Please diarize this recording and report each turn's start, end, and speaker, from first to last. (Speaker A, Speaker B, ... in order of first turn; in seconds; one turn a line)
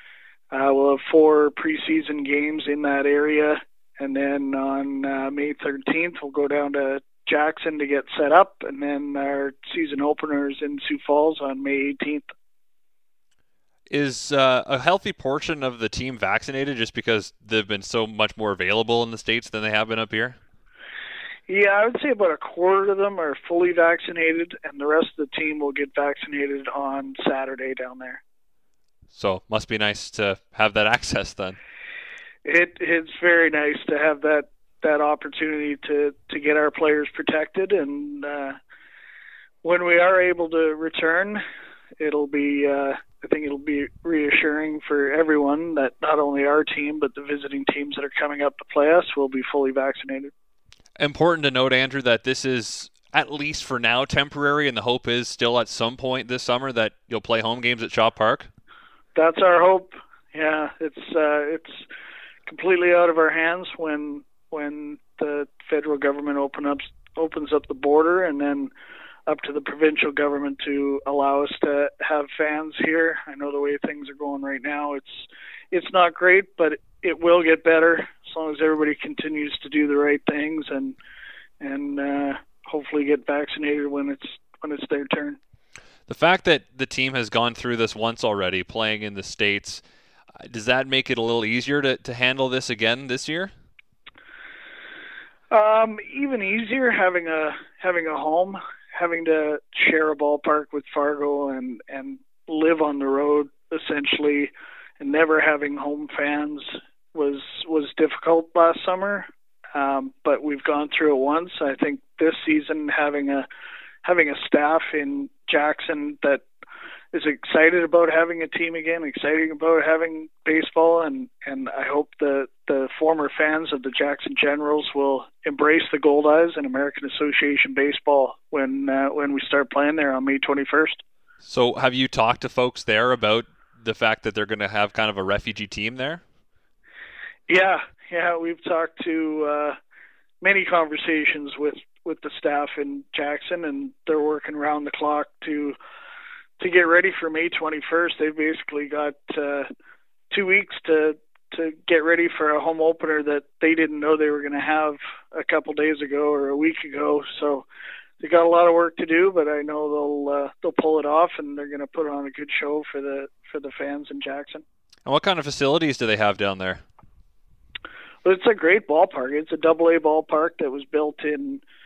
Speaker A: 0.5-12.3
Speaker B: 13.9-20.4
Speaker A: 21.5-28.2
Speaker B: 29.1-31.6
Speaker A: 32.4-38.5
Speaker A: 39.6-41.4
Speaker A: 42.0-50.3
Speaker B: 51.0-58.5
Speaker A: 59.1-61.9
Speaker A: 62.5-68.7
Speaker A: 69.3-81.0
Speaker A: 81.6-85.4
Speaker B: 86.1-89.8
Speaker B: 90.4-93.5
Speaker A: 95.5-113.5
Speaker A: 114.0-116.4
Speaker A: 117.1-131.0
Speaker B: 131.4-136.2
Speaker A: 137.5-139.7
Speaker A: 140.4-145.8
Speaker A: 146.6-149.7
Speaker A: 150.3-157.7
Speaker A: 158.2-164.6
Speaker B: 165.1-166.8
Speaker A: 168.2-171.6